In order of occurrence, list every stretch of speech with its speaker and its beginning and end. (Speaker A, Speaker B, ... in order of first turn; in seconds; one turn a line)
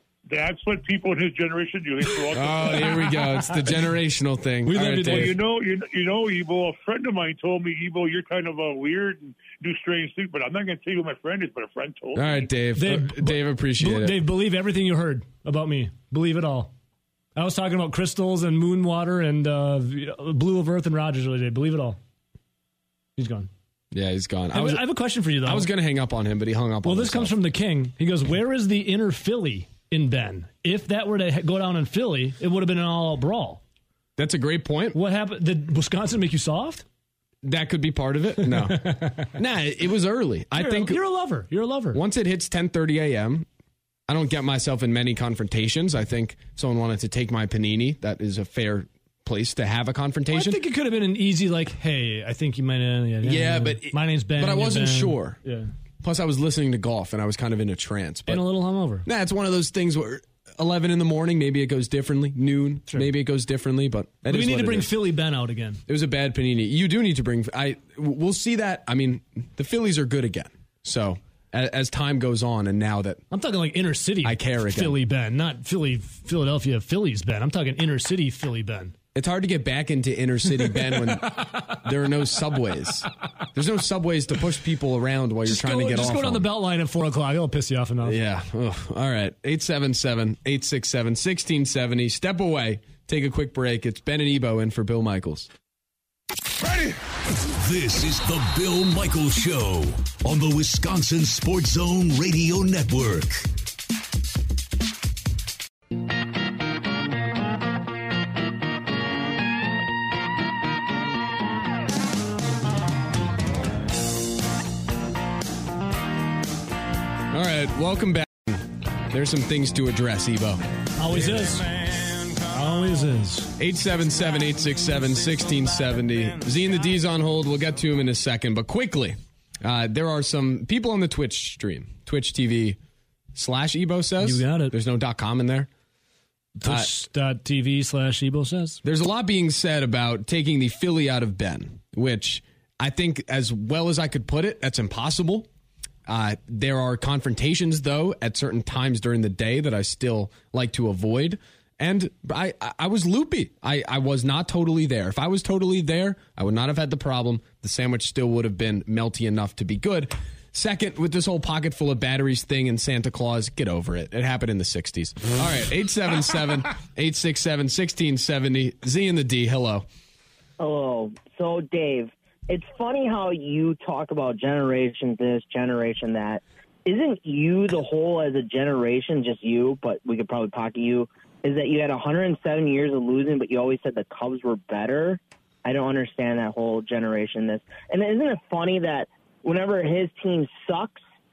Speaker A: 0.3-3.0
Speaker B: 2.3-5.4
Speaker C: 2.9-3.2
Speaker C: 4.7-5.4
Speaker A: 5.1-12.5
Speaker B: 12.2-14.2
Speaker C: 12.8-16.7
Speaker C: 17.4-22.0
Speaker C: 23.2-23.5
Speaker B: 23.9-24.9
Speaker C: 24.5-25.7
Speaker B: 25.4-27.4
Speaker C: 26.8-33.6
Speaker B: 34.2-35.0
Speaker C: 34.9-36.9
Speaker B: 37.4-41.0
Speaker C: 38.4-39.3
Speaker C: 40.5-42.0
Speaker B: 41.9-43.5
Speaker B: 44.1-50.6
Speaker C: 50.3-55.7
Speaker B: 53.2-55.4
Speaker B: 56.0-58.5
Speaker C: 58.3-59.1
Speaker B: 59.0-64.9
Speaker C: 64.3-65.8
Speaker B: 65.9-73.2
Speaker C: 73.3-78.9
Speaker B: 74.2-75.0
Speaker B: 79.2-86.5
Speaker C: 80.9-81.8
Speaker C: 85.5-88.2
Speaker B: 88.0-95.5
Speaker D: 97.5-103.5
Speaker B: 117.3-120.6
Speaker C: 121.0-121.8
Speaker C: 122.4-123.5
Speaker B: 123.6-132.8
Speaker B: 133.3-135.7
Speaker C: 134.2-134.7
Speaker C: 136.6-138.8
Speaker B: 136.6-136.9
Speaker B: 138.8-145.5
Speaker B: 146.1-169.9
Speaker E: 170.6-191.0